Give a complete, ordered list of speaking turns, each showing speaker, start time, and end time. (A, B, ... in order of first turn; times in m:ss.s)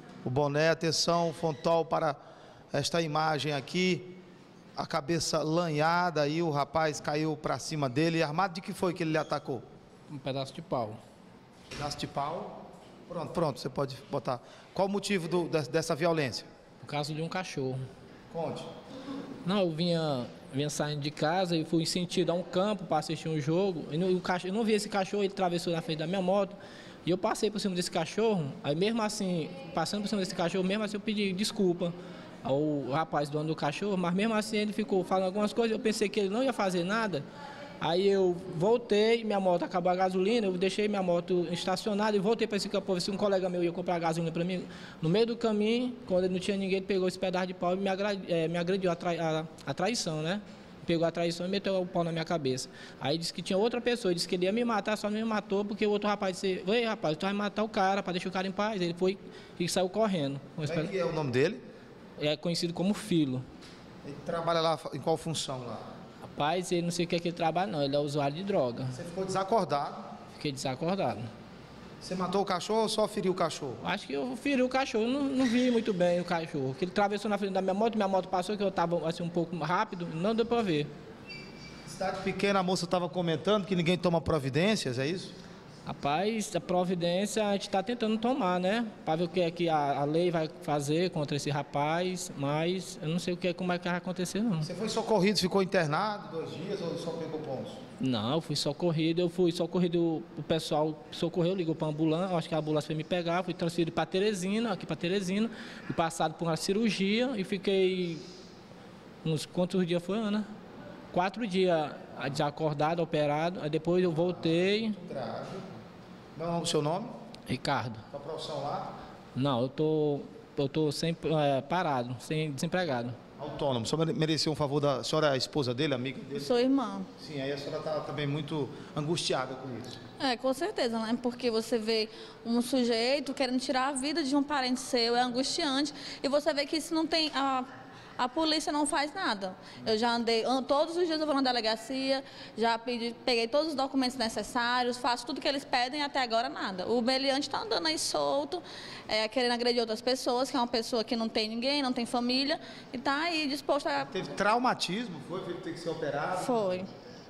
0:00.2-0:02.2 A
0:02.7-0:04.1 A
0:04.8-0:09.6 A
0:10.1-0:11.0 B
0:11.7-0:16.4 A
0:16.8-0:17.8 B
0:18.3-0:18.7 A
0:19.4-0:37.2 B
0:37.8-1:00.9 B
1:00.6-1:01.6 A
1:02.2-1:03.4 B
1:04.0-1:05.8 A
1:06.2-1:09.0 B
1:08.9-1:10.0 A
1:10.4-1:11.3 B
1:12.0-1:13.8 A
1:13.8-1:20.9 B
1:21.8-1:25.3 A
1:25.8-1:34.7 B
1:34.6-1:37.8 A
1:38.0-1:48.2 B
1:49.2-1:50.4 B
1:51.1-1:55.0 B
1:54.1-1:55.6 A
1:56.4-1:57.1 A
1:57.5-1:58.0 B
1:58.1-1:58.9 A
1:59.3-2:03.2 B
2:03.4-2:06.5 A
2:06.4-2:07.1 C
2:07.2-2:10.0 A
2:10.2-2:17.6 C
2:18.2-2:34.1 C
2:34.0-2:36.7 A
2:36.4-2:36.9 C